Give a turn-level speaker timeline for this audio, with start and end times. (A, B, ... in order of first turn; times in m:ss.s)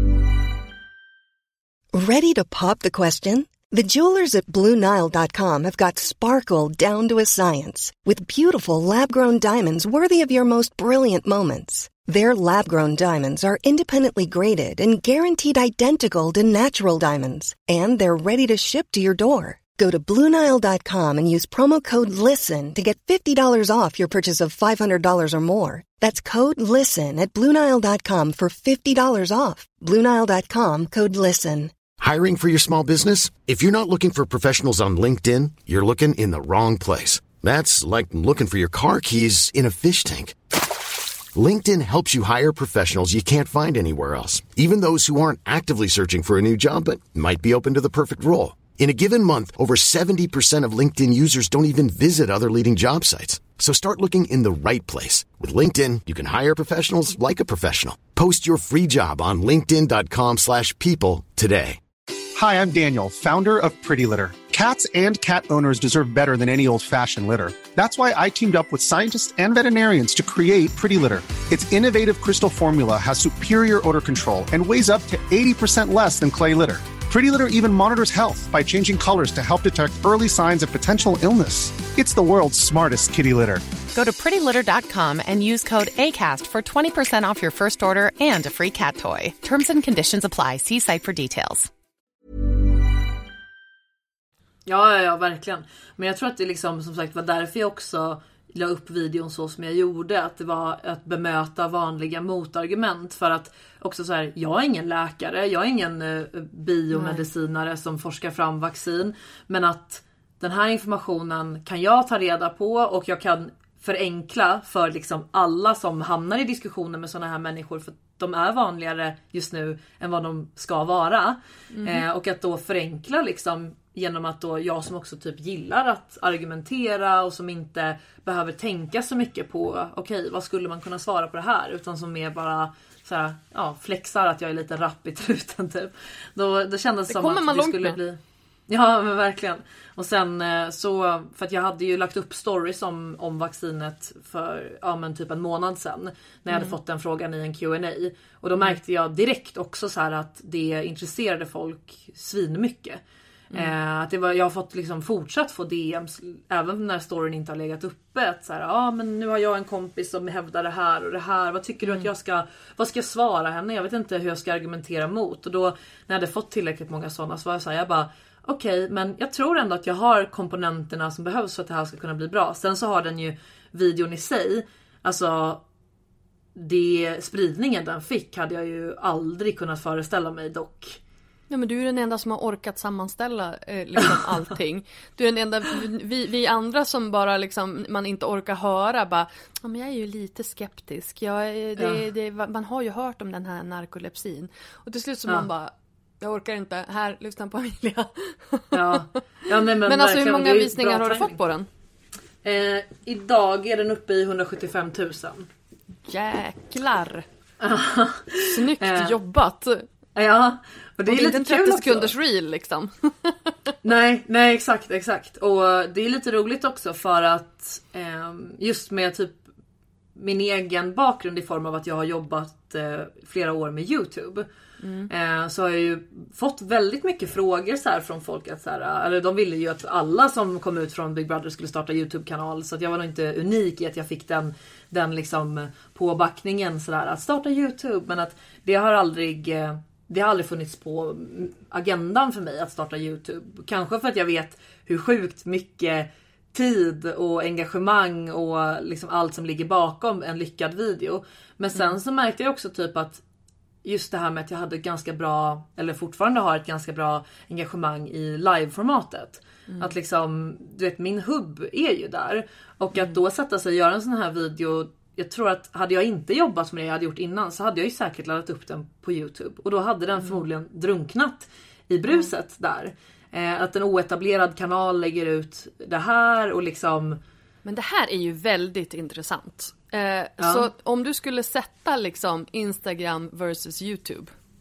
0:01.9-0:31.8 A
0:32.0-0:40.4 B
0:41.3-1:01.8 B
1:02.4-1:23.6 C
1:23.9-1:31.7 D
1:34.7-2:33.0 E
1:46.9-1:47.3 F
2:01.7-2:02.0 F
2:17.1-2:18.0 F
2:26.5-2:26.8 F
2:33.5-2:55.6 E
2:56.6-3:01.0 E
3:01.5-3:19.0 F
3:18.7-3:21.4 E
3:19.9-3:21.7 F
3:22.4-3:25.5 E
3:26.1-3:27.3 F
3:27.6-3:29.2 E
3:28.4-3:29.8 F
3:30.2-3:32.1 E
3:31.1-3:33.5 F
3:33.8-3:39.4 E
3:40.2-3:44.5 E
3:44.8-3:45.1 F
3:45.1-4:13.2 E
4:13.8-4:37.2 E
4:37.6-4:44.3 F
4:40.4-4:40.7 E